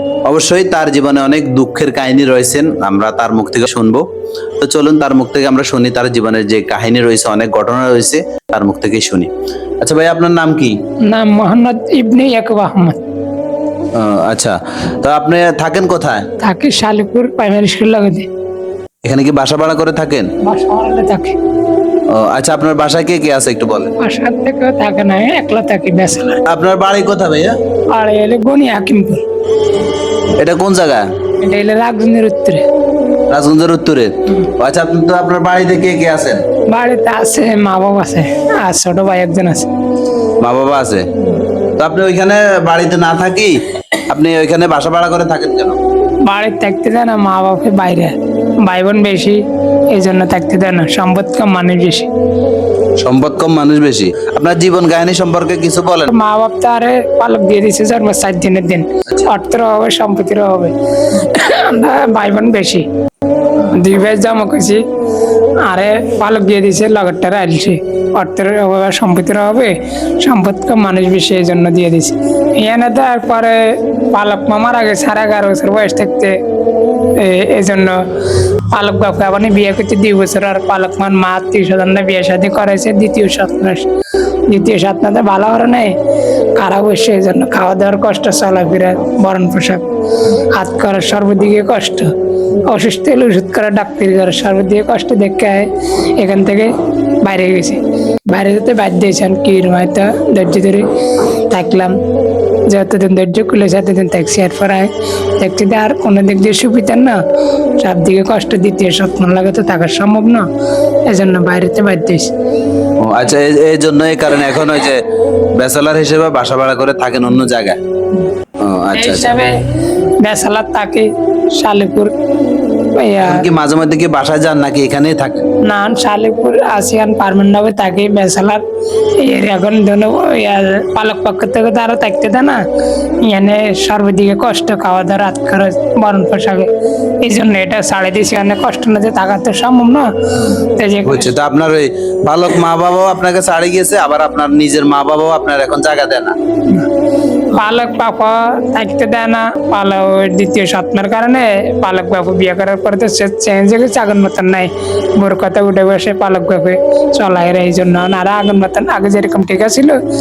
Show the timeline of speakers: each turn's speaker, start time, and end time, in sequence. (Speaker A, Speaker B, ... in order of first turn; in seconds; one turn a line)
Speaker A: 0.3-4.0
Speaker A: 4.6-9.3
Speaker A: 9.8-10.8
Speaker B: 11.0-13.0
Speaker A: 13.9-16.3
Speaker B: 16.4-18.3
Speaker A: 19.1-20.3
Speaker B: 20.4-21.4
Speaker A: 22.1-23.9
Speaker B: 24.0-26.4
Speaker A: 26.5-27.6
Speaker B: 27.9-29.2
Speaker A: 30.4-31.1
Speaker B: 31.4-32.6
Speaker A: 33.3-36.4
Speaker B: 36.7-39.7
Speaker A: 40.4-41.0
Speaker A: 41.8-45.8
Speaker B: 46.3-52.1
Speaker A: 53.0-56.1
Speaker B: 56.1-62.9
Speaker B: 63.7-64.8
Speaker B: 65.6-76.4
Speaker B: 77.2-83.9
Speaker B: 84.5-86.0
Speaker B: 86.6-89.9
Speaker B: 90.5-92.1
Speaker B: 92.6-102.0
Speaker B: 102.7-107.2
Speaker B: 107.8-110.5
Speaker B: 111.1-112.3
Speaker A: 113.0-115.0
Speaker A: 115.6-117.8
Speaker A: 118.6-119.3
Speaker B: 118.9-119.6
Speaker B: 120.2-122.1
Speaker B: 123.0-123.4
Speaker A: 123.2-125.5
Speaker B: 125.6-128.6
Speaker B: 129.2-132.6
Speaker B: 133.2-136.7
Speaker B: 137.2-140.1
Speaker B: 140.8-141.3
Speaker A: 141.1-146.3
Speaker B: 147.5-160.0